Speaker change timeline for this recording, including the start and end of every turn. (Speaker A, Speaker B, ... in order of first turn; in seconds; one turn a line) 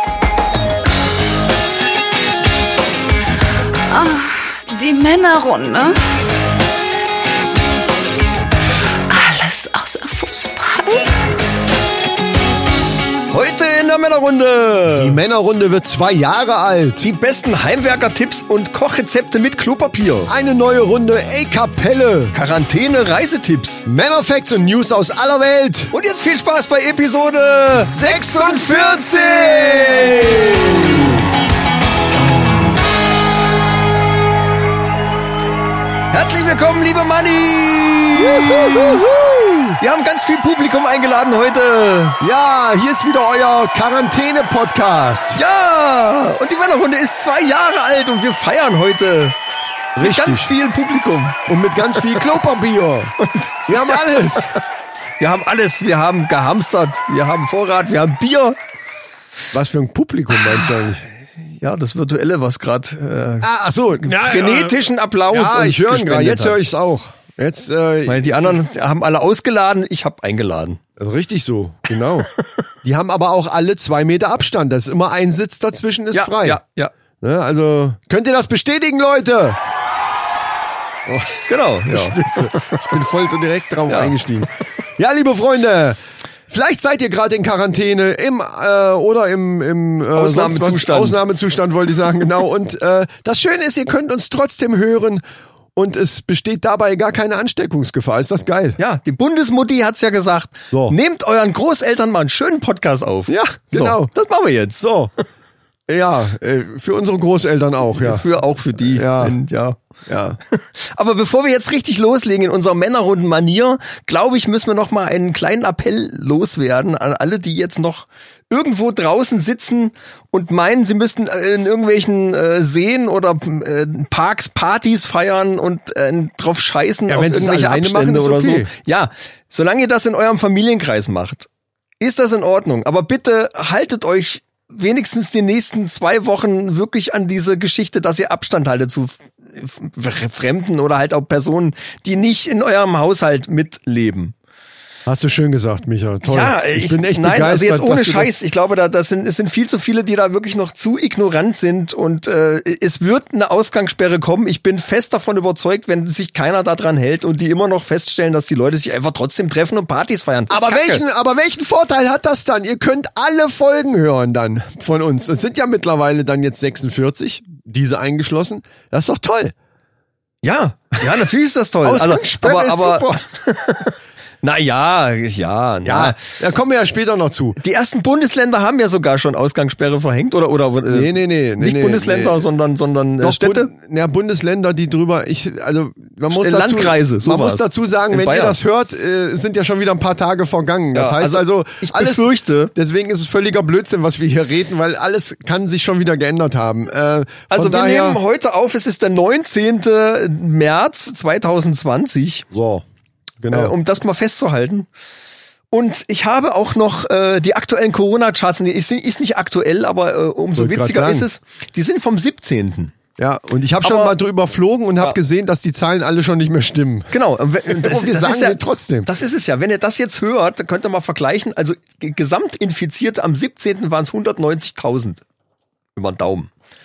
Speaker A: 3.9-6.0
Speaker A: 9.1-11.1
Speaker B: 13.3-15.2
Speaker C: 14.9-17.1
Speaker B: 17.0-20.3
Speaker C: 20.3-22.3
Speaker B: 22.3-23.8
Speaker C: 23.9-25.9
Speaker B: 25.9-29.2
Speaker C: 27.7-31.1
Speaker B: 36.1-39.1
Speaker C: 38.1-39.8
Speaker B: 39.8-42.2
Speaker C: 42.2-45.4
Speaker B: 45.3-49.4
Speaker C: 50.0-50.5
Speaker B: 50.0-52.2
Speaker C: 51.5-53.1
Speaker B: 53.2-54.0
Speaker C: 53.7-54.5
Speaker B: 55.2-58.6
Speaker C: 59.5-61.0
Speaker B: 61.4-63.5
Speaker C: 63.4-68.6
Speaker B: 64.0-66.6
Speaker B: 68.1-70.8
Speaker C: 71.0-72.3
Speaker C: 72.8-76.6
Speaker B: 76.1-76.9
Speaker C: 77.2-79.6
Speaker C: 81.1-81.4
Speaker B: 81.4-82.8
Speaker C: 81.9-95.2
Speaker B: 83.9-84.2
Speaker B: 90.1-91.2
Speaker C: 95.8-98.8
Speaker B: 98.8-104.8
Speaker C: 103.3-104.1
Speaker C: 104.8-105.1
Speaker C: 105.9-108.2
Speaker B: 108.0-109.8
Speaker C: 108.8-109.3
Speaker C: 110.1-110.4
Speaker B: 110.5-131.5
Speaker C: 127.1-128.7
Speaker B: 132.0-144.3
Speaker C: 145.1-148.3
Speaker B: 146.2-161.0
Speaker C: 160.5-169.5
Speaker B: 170.4-176.2
Speaker C: 171.8-173.2
Speaker C: 175.8-177.6
Speaker B: 177.6-183.7
Speaker C: 180.9-182.4
Speaker C: 183.2-198.2
Speaker B: 186.3-188.6
Speaker B: 190.9-192.7
Speaker B: 197.5-202.5
Speaker C: 202.5-202.8
Speaker C: 203.4-203.7
Speaker B: 203.5-204.9
Speaker B: 205.7-212.9
Speaker C: 210.6-211.3
Speaker C: 213.2-217.1
Speaker B: 213.8-214.2
Speaker B: 217.1-225.2
Speaker C: 217.7-219.1
Speaker B: 225.9-226.5